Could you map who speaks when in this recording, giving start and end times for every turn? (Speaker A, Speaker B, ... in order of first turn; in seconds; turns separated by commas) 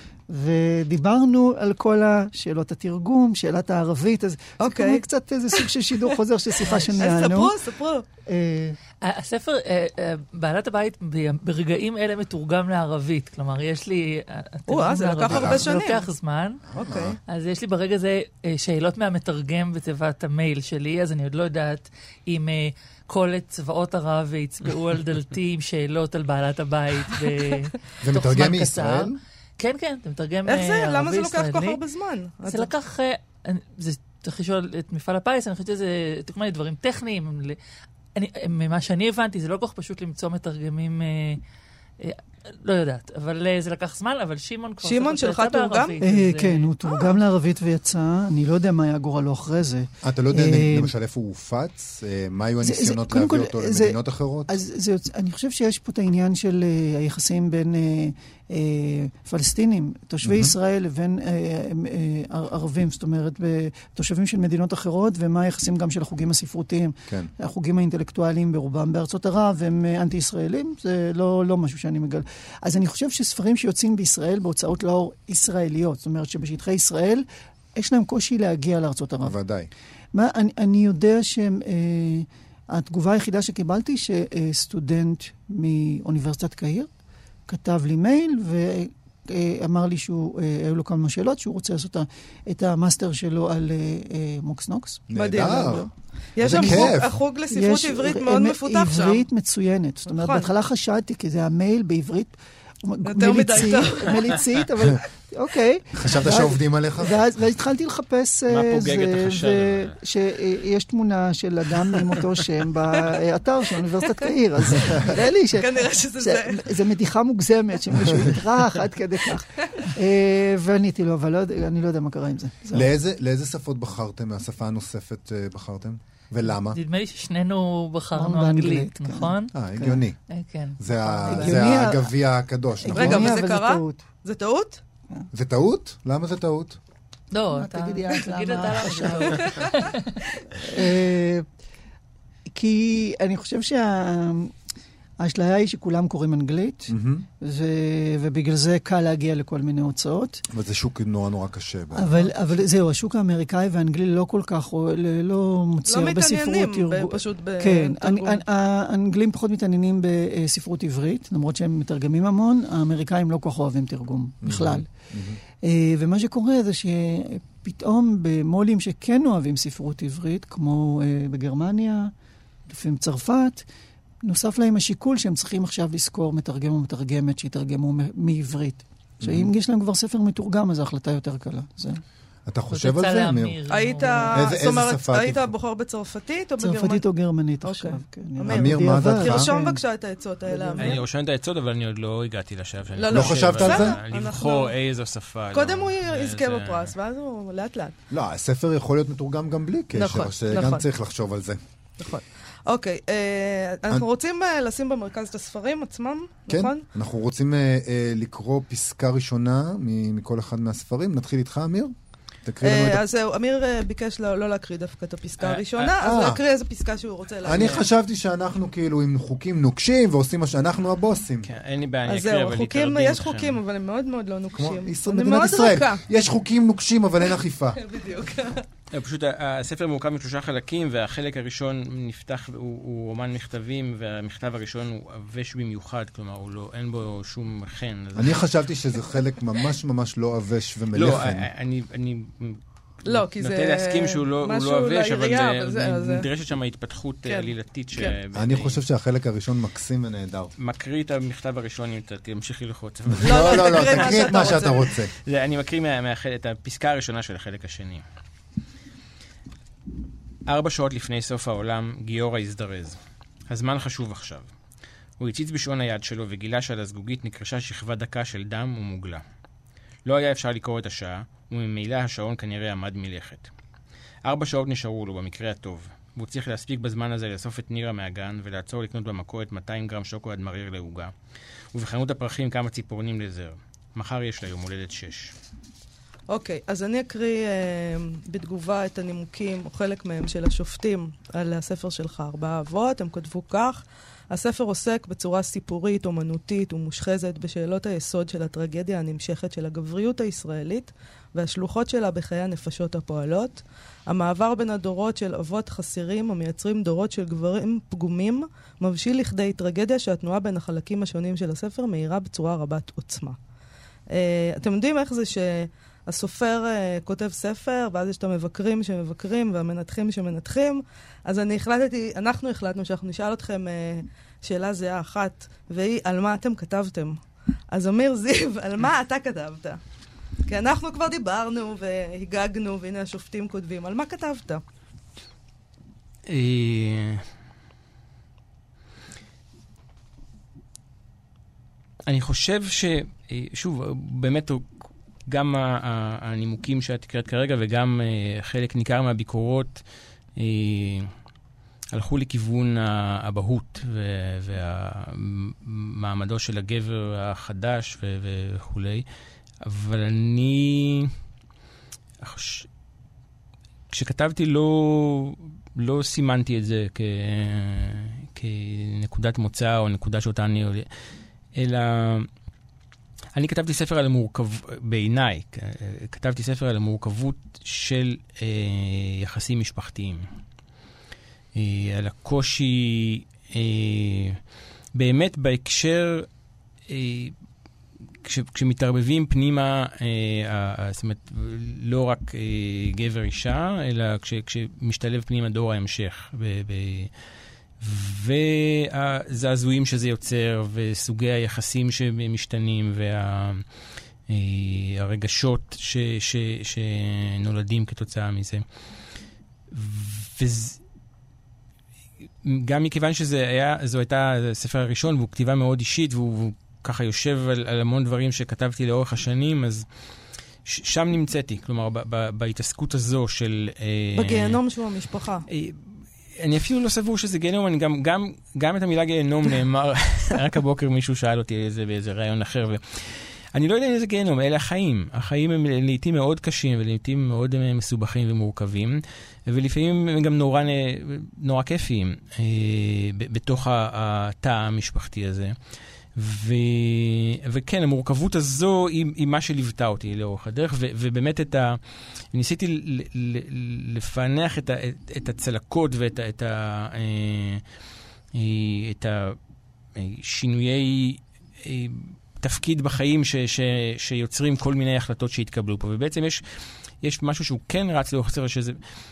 Speaker A: 0.3-7.6, Speaker B: 4.6-5.0, Speaker B: 6.7-8.0, Speaker A: 8.2-8.8, Speaker C: 9.0-16.6, Speaker B: 14.7-16.1, Speaker D: 15.3-15.7, Speaker D: 16.7-17.2, Speaker B: 16.8-17.1, Speaker C: 17.3-31.8, Speaker D: 28.0-29.2, Speaker B: 30.5-32.7, Speaker C: 32.4-37.6, Speaker C: 38.1-41.4, Speaker C: 42.0-46.7, Speaker B: 44.8-46.0, Speaker A: 46.0-50.9, Speaker D: 50.0-54.5, Speaker A: 52.6-79.3, Speaker D: 60.2-60.5, Speaker D: 79.2-79.7, Speaker A: 80.1-86.9, Speaker A: 87.5-95.9, Speaker D: 95.1-95.9, Speaker B: 95.2-95.8, Speaker B: 96.3-99.2, Speaker D: 96.4-97.2, Speaker A: 96.4-96.9, Speaker A: 97.5-122.9, Speaker B: 100.1-100.5, Speaker B: 103.0-104.4, Speaker D: 106.0-107.2, Speaker E: 108.5-110.0, Speaker B: 115.5-116.7, Speaker D: 122.7-126.8, Speaker C: 126.7-129.5, Speaker A: 128.2-130.0, Speaker D: 129.5-130.2, Speaker C: 130.3-131.6, Speaker D: 130.8-133.4, Speaker A: 131.3-132.1, Speaker A: 132.8-134.0, Speaker B: 132.9-134.8, Speaker D: 135.3-136.8, Speaker C: 137.3-140.2, Speaker A: 137.5-139.6, Speaker B: 139.3-139.8, Speaker A: 140.6-141.5, Speaker A: 142.5-144.5, Speaker A: 145.2-150.4, Speaker D: 146.9-147.3, Speaker D: 150.5-152.1, Speaker A: 151.9-164.9, Speaker B: 155.9-158.4, Speaker D: 164.4-165.4, Speaker A: 165.6-172.1, Speaker A: 172.7-173.7, Speaker A: 174.2-182.0, Speaker D: 179.2-179.5, Speaker D: 182.5-183.6, Speaker C: 182.7-184.5, Speaker B: 183.7-187.0, Speaker D: 184.3-185.5, Speaker A: 186.6-189.8, Speaker B: 187.6-191.0, Speaker D: 188.5-189.6, Speaker A: 190.5-191.0, Speaker E: 190.8-196.9, Speaker B: 193.0-194.7, Speaker D: 193.1-194.0, Speaker B: 195.5-197.9, Speaker D: 198.1-201.6, Speaker B: 199.9-200.8, Speaker B: 202.0-206.8, Speaker D: 206.5-213.0, Speaker B: 212.6-217.9, Speaker E: 215.4-216.0, Speaker D: 216.0-216.4, Speaker D: 217.4-221.5, Speaker E: 217.5-217.8, Speaker E: 221.4-223.6, Speaker B: 222.1-226.0, Speaker D: 224.6-227.8, Speaker B: 227.7-228.7, Speaker E: 228.9-238.5, Speaker D: 238.2-241.5, Speaker E: 240.9-248.8, Speaker B: 243.1-246.3, Speaker B: 247.2-248.2, Speaker D: 248.3-250.5, Speaker E: 250.6-258.0, Speaker D: 253.2-255.1, Speaker B: 253.2-254.9, Speaker E: 260.5-264.5, Speaker E: 265.2-269.2, Speaker E: 270.1-273.5, Speaker E: 274.2-281.1, Speaker E: 281.7-285.4, Speaker B: 286.3-313.4, Speaker B: 314.1-329.8, Speaker B: 330.4-334.6, Speaker E: 336.3-337.3, Speaker E: 342.1-349.8, Speaker E: 350.4-351.1, Speaker E: 351.9-359.1, Speaker E: 359.6-361.1, Speaker E: 362.2-362.7, Speaker E: 363.9-370.9, Speaker E: 371.6-372.3, Speaker E: 373.4-380.2, Speaker E: 381.6-384.4, Speaker E: 384.9-386.3, Speaker E: 386.9-387.4, Speaker E: 388.2-397.1, Speaker E: 397.8-403.7, Speaker E: 404.3-408.6, Speaker E: 409.7-410.8, Speaker E: 412.4-424.6, Speaker B: 424.1-425.5, Speaker E: 425.5-445.6, Speaker E: 446.1-457.6, Speaker E: 458.4-459.4, Speaker E: 460.0-468.8